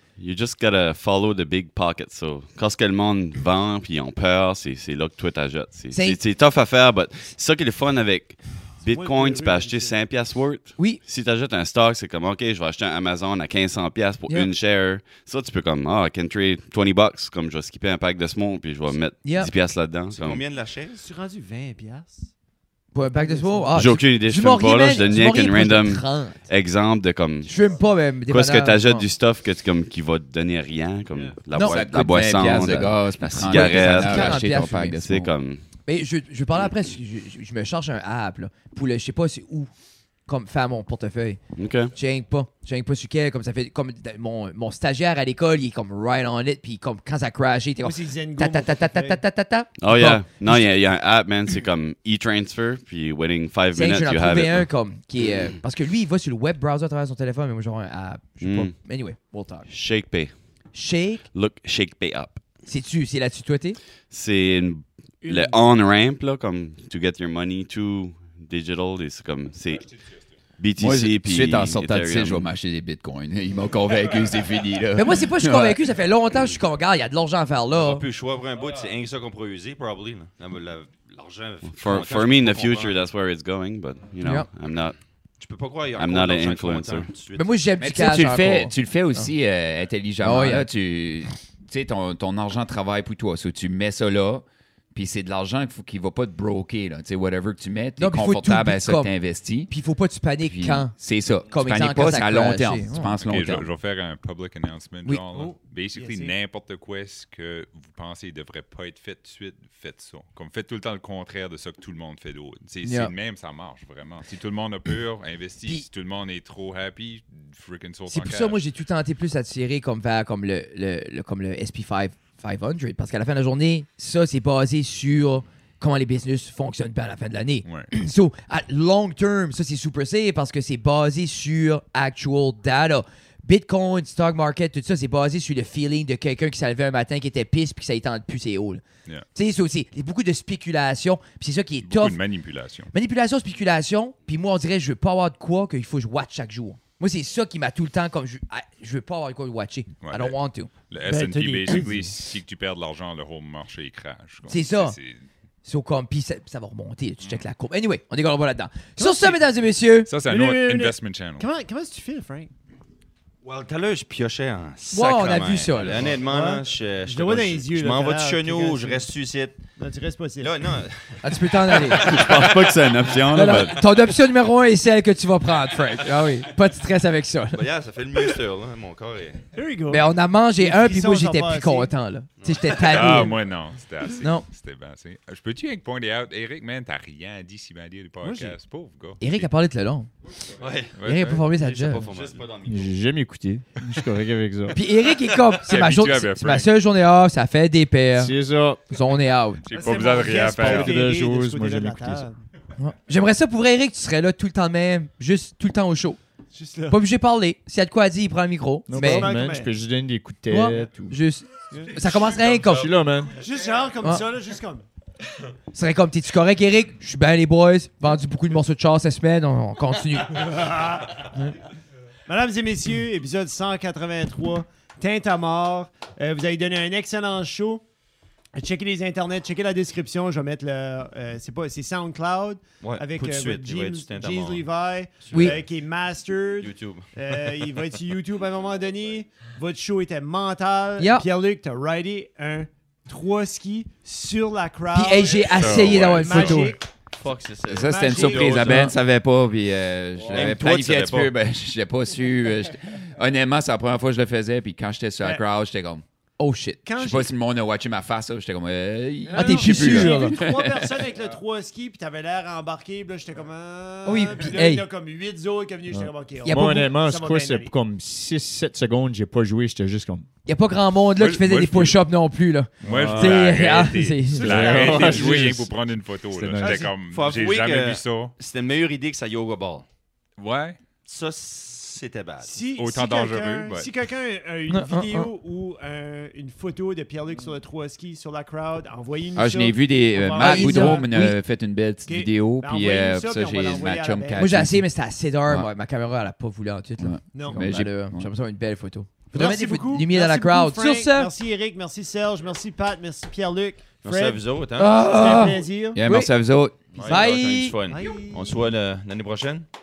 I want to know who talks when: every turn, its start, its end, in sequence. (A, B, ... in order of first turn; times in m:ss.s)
0:00.2-0:20.4 A
0:05.9-0:06.2 B
0:08.8-0:10.0 C
0:19.2-0:19.5 B
0:20.1-0:21.1 D
0:20.9-0:22.3 C
0:22.9-0:26.4 B
0:23.0-0:23.9 C
0:23.8-0:27.5 A
0:27.5-0:29.0 B
0:28.2-0:35.6 A
0:31.1-0:31.4 C
0:31.5-0:31.8 B
0:31.6-0:35.3 E
0:33.5-0:35.0 B
0:35.9-0:39.7 B
0:40.3-0:41.4 B
0:41.6-0:41.9 A
0:41.9-0:50.7 B
0:47.8-0:49.2 C
0:49.8-0:54.7 A
0:53.7-0:59.7 B
0:58.4-0:58.8 A
0:59.7-1:00.3 A
1:00.7-1:01.3 B
1:01.3-1:02.4 A
1:02.7-1:03.8 B
1:04.1-1:10.0 A
1:05.2-1:05.5 B
1:10.6-1:12.5 A
1:10.8-1:15.8 E
1:15.0-1:18.0 B
1:17.7-1:23.0 D
1:21.7-1:25.0 A
1:24.2-1:24.5 B
1:25.4-1:27.6 D
1:26.0-1:27.1 A
1:27.4-1:29.3 B
1:27.8-1:39.7 E
1:30.2-1:30.7 B
1:38.0-1:39.2 B
1:39.7-1:40.9 B
1:40.4-1:43.7 E
1:41.5-1:43.1 B
1:43.2-1:58.6 F
1:45.3-1:46.4 C
1:52.8-1:53.1 B
1:58.1-2:18.8 B
2:07.6-2:07.9 F
2:19.4-2:22.2 B
2:21.8-2:22.9 F
2:22.9-2:30.7 B
2:30.0-2:30.4 F
2:30.9-2:35.2 F
2:31.0-2:32.2 C
2:34.5-2:35.0 B
2:35.6-2:40.1 B
2:39.0-2:39.4 C
2:40.1-2:41.5 F
2:40.2-2:42.5 C
2:43.4-2:49.6 D
2:44.9-2:46.1 B
2:46.0-2:49.1 C
2:49.8-2:50.7 C
2:50.4-2:52.6 D
2:51.2-2:52.2 B
2:51.9-2:53.8 A
2:53.3-2:57.7 B
2:57.5-2:59.5 D
2:59.5-3:01.9 C
2:59.9-3:03.4 B
3:02.4-3:03.2 D
3:02.7-3:09.5 F
3:04.2-3:04.5 B
3:08.2-3:08.6 C
3:09.2-3:10.1 B
3:10.6-3:13.0 D
3:11.0-3:11.5 F
3:11.0-3:12.1 B
3:11.6-3:12.4 A
3:12.6-3:14.8 G
3:14.7-3:18.3 B
3:15.6-3:16.7 F
3:18.2-3:18.9 G
3:18.9-3:19.7 B
3:19.6-3:21.0 F
3:19.7-3:22.4 C
3:20.6-3:22.3 G
3:22.8-3:26.2 B
3:26.5-3:27.0 C
3:26.9-3:29.3 B
3:28.9-3:31.2 G
3:28.9-3:29.7 C
3:30.5-3:32.9 B
3:31.7-3:32.0 C
3:32.1-3:32.9 D
3:32.7-3:33.4 G
3:33.3-3:34.8 C
3:35.7-3:40.6 B
3:40.3-3:41.4 C
3:42.3-3:47.8 C
3:48.6-4:06.9 C
3:52.8-3:54.7 D
3:55.2-3:55.8 D
3:55.3-3:55.6 B
3:56.6-3:57.8 D
4:01.0-4:01.3 B
4:04.9-4:06.8 B
4:05.5-4:06.7 F
4:07.2-4:09.0 D
4:07.7-4:16.0 E
4:07.7-4:08.9 C
4:10.3-4:11.3 D
4:16.4-4:16.8 B
4:16.8-4:17.3 C
4:17.0-4:21.0 E
4:19.3-4:27.7 C
4:19.3-4:20.4 B
4:24.0-4:24.9 B
4:25.9-4:30.3 G
4:26.4-4:26.9 B
4:30.5-4:35.1 B
4:31.2-4:32.0 F
4:32.8-4:33.5 G
4:32.8-4:38.3 F
4:34.3-4:35.7 G
4:36.3-4:36.9 G
4:36.6-4:36.9 C
4:37.0-4:39.9 D
4:40.4-4:40.8 F
4:41.0-4:42.7 D
4:42.4-4:51.1 C
4:42.8-4:43.9 F
4:44.7-4:45.3 B
4:49.4-4:54.9 E
4:50.4-4:51.4 B
4:52.1-4:54.5 C
4:54.4-5:01.3 B
4:57.0-4:58.3 E
4:57.3-4:57.7 C
4:59.3-5:04.4 C
5:04.0-5:05.4 D
5:04.8-5:06.3 B
5:05.0-5:06.0 C
5:05.9-5:06.8 E
5:06.9-5:09.7 D
5:07.0-5:08.2 B
5:07.9-5:08.6 C